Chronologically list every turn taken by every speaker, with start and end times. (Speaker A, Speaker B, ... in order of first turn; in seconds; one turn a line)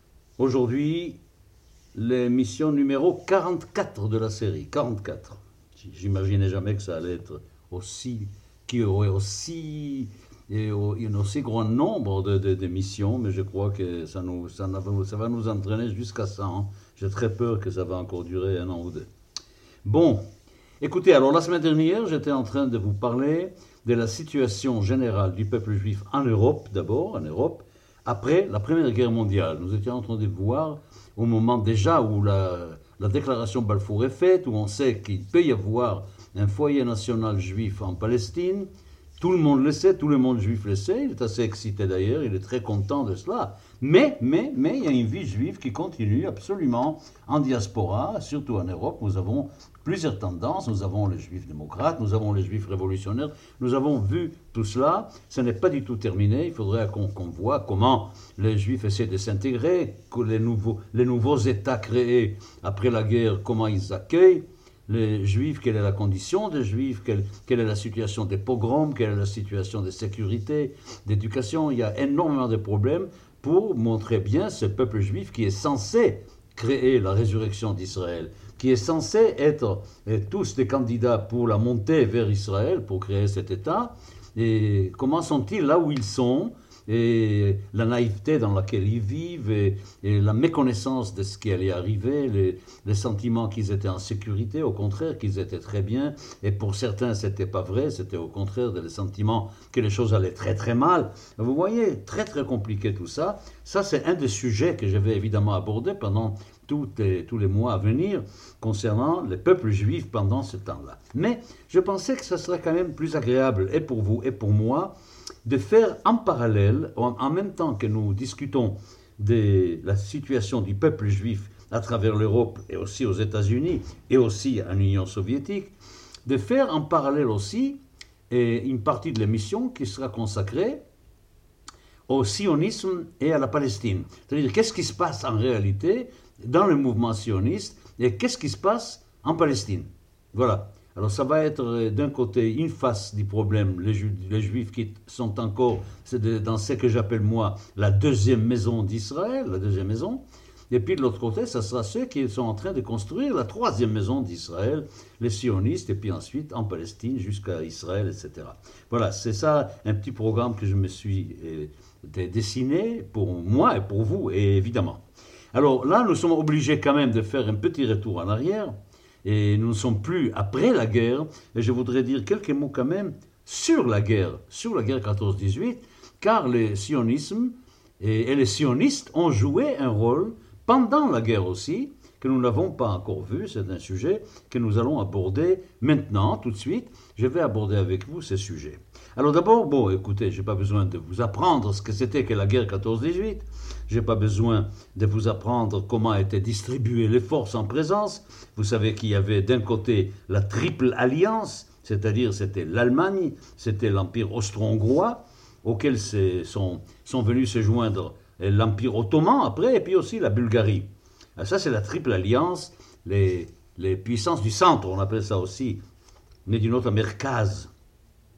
Speaker A: 0.4-1.2
Speaker A: 1.9-19.1
Speaker A: 19.8-20.2
Speaker A: 20.8-38.7
Speaker A: 39.2-114.9
Speaker A: 115.5-125.7
Speaker A: 126.2-127.8
Speaker A: 128.3-130.8
Speaker A: 132.1-165.0
Speaker A: 165.5-215.8
Speaker A: 216.5-217.7